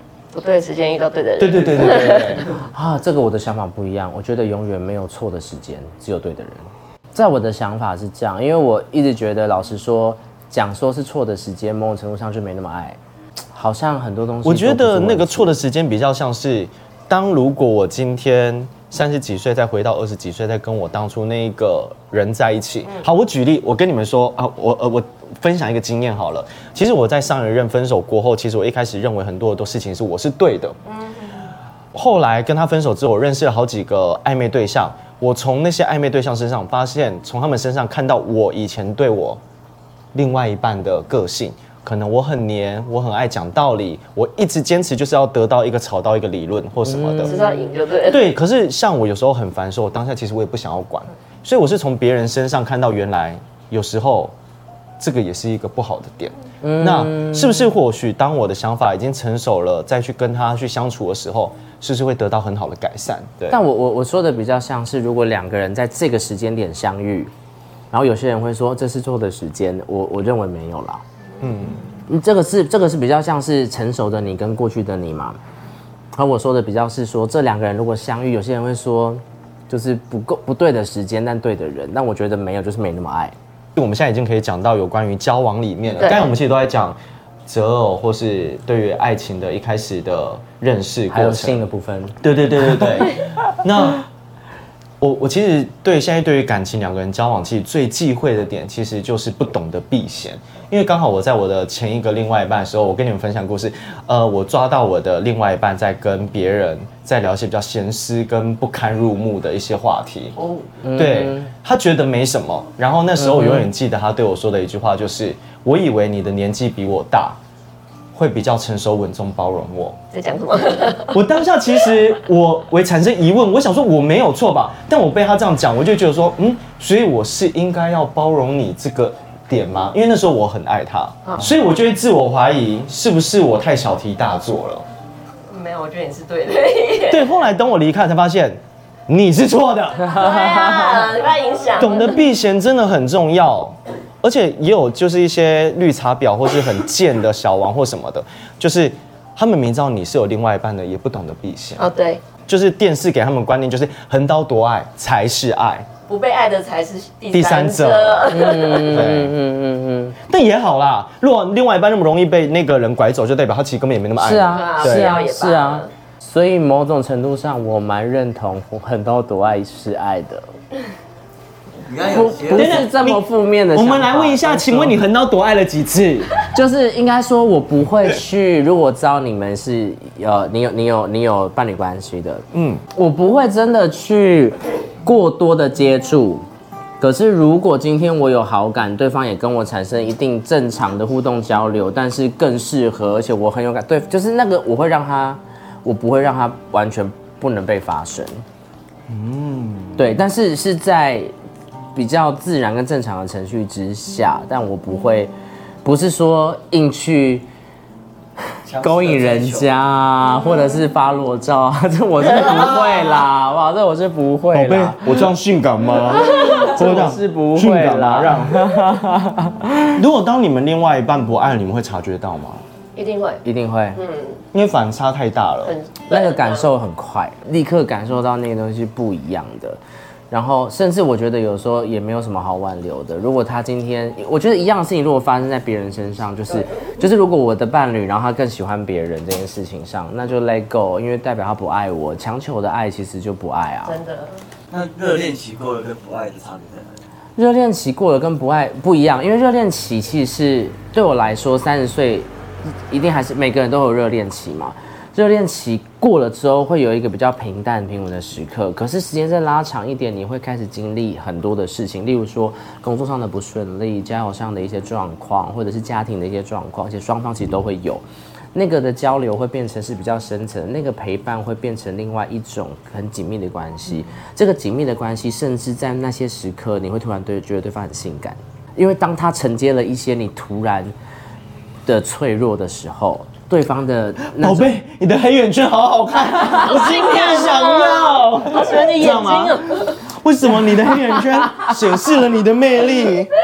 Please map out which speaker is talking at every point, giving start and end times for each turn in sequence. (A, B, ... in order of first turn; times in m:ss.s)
0:00.3-0:02.4 A
0:01.4-0:02.5 B
0:02.7-0:13.0 C
0:13.5-0:15.5 C
0:14.4-0:30.8 B
0:30.9-0:31.5 A
0:31.9-0:39.4 B
0:40.1-0:47.4 B
0:46.8-0:47.5 C
0:47.2-0:48.2 A
0:48.1-0:54.3 B
0:55.0-1:03.6 B
0:56.6-0:57.7 C
1:03.5-1:07.3 C
1:07.9-1:11.0 C
1:11.4-1:11.8 B
1:12.1-1:15.4 C
1:16.1-1:23.4 C
1:23.8-1:31.6 B
1:26.0-1:26.3 A
1:31.1-1:32.2 C
1:32.2-1:34.0 B
1:32.8-1:33.1 C
1:35.0-1:50.4 B
1:50.5-1:51.5 C
1:50.9-1:57.4 B
1:53.2-1:53.7 C
1:58.1-2:00.0 B
2:00.1-2:01.2 A
2:01.1-2:14.9 B
2:15.5-2:17.3 A
2:17.1-2:21.0 B
2:20.1-2:22.2 A
2:21.8-2:31.9 B
2:31.8-2:32.2 A
2:32.5-2:35.9 B
2:36.1-2:39.1 A
2:37.3-2:39.3 B
2:38.3-2:40.2 C
2:40.3-2:45.2 B
2:44.2-2:50.5 C
2:44.5-2:45.9 A
2:51.9-2:52.9 D
2:52.1-2:55.0 C
2:52.5-2:56.5 B
2:56.5-3:06.4 C
3:02.5-3:02.8 B
3:07.0-3:18.4 C
3:19.1-3:20.1 B
3:20.0-3:21.3 C
3:22.0-3:25.3 C
3:25.8-3:27.5 C
3:28.6-3:29.7 D
3:28.8-3:35.2 C
3:34.5-3:38.8 B
3:36.2-3:40.0 C
3:40.0-3:42.6 B
3:43.0-3:43.4 A
3:43.4-3:44.0 C
3:44.0-3:44.4 A
3:44.5-3:45.8 B
3:45.7-3:46.7 A
3:46.1-3:49.8 C
3:50.3-4:04.0 C
3:56.5-3:56.9 A
4:03.8-4:04.4 A
4:04.7-4:07.0 D
4:07.4-4:12.3 C
4:12.9-4:28.0 C
4:28.6-4:40.9 C
4:41.9-4:44.7 C
4:44.4-4:53.3 B
4:46.5-4:50.0 A